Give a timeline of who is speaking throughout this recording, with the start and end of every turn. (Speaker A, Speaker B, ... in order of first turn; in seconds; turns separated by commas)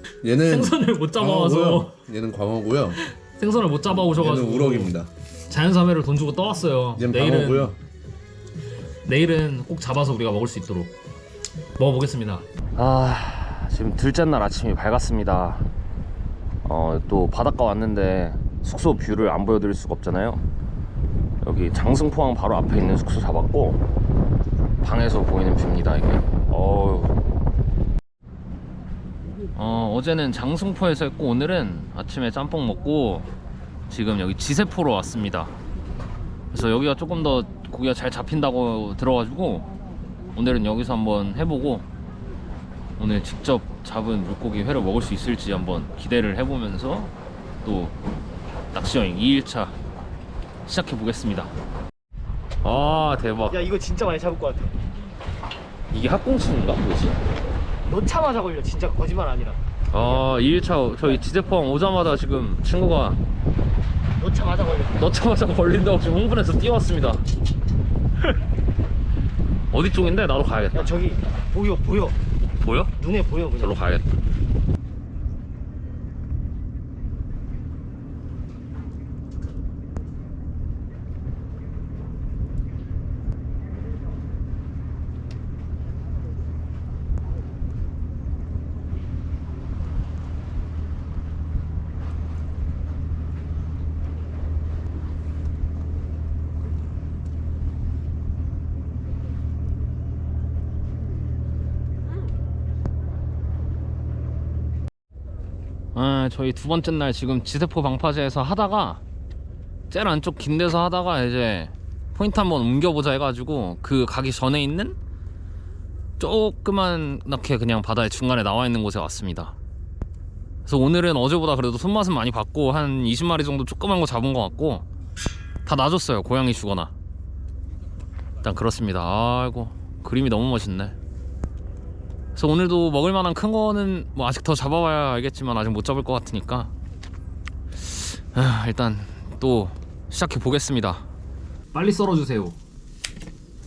Speaker A: 0.2-3.0, Speaker B: 0.4-2.0, Speaker B: 3.0-4.9, Speaker A: 3.9-5.1, Speaker B: 5.5-7.8, Speaker A: 7.0-7.8, Speaker B: 9.0-10.9, Speaker B: 11.8-15.7, Speaker B: 16.6-20.4, Speaker B: 21.4-23.8, Speaker B: 24.8-27.1, Speaker B: 29.5-33.3, Speaker B: 33.9-35.5, Speaker B: 36.5-39.7, Speaker B: 40.3-41.9, Speaker B: 43.0-48.0, Speaker B: 48.7-49.8, Speaker B: 50.6-51.5, Speaker B: 52.6-53.6, Speaker C: 53.5-54.7, Speaker B: 55.9-57.2, Speaker C: 57.9-59.6, Speaker B: 59.9-63.2, Speaker C: 64.2-65.0, Speaker B: 64.9-67.2, Speaker B: 69.7-71.0, Speaker C: 70.7-72.2, Speaker B: 72.6-72.9, Speaker C: 73.0-73.8, Speaker B: 73.6-74.1, Speaker B: 105.9-109.0, Speaker B: 109.9-115.0, Speaker B: 116.2-119.5, Speaker B: 120.6-124.8, Speaker B: 125.6-126.9, Speaker B: 128.4-130.9, Speaker B: 132.3-136.7, Speaker B: 137.8-141.0, Speaker B: 141.7-142.6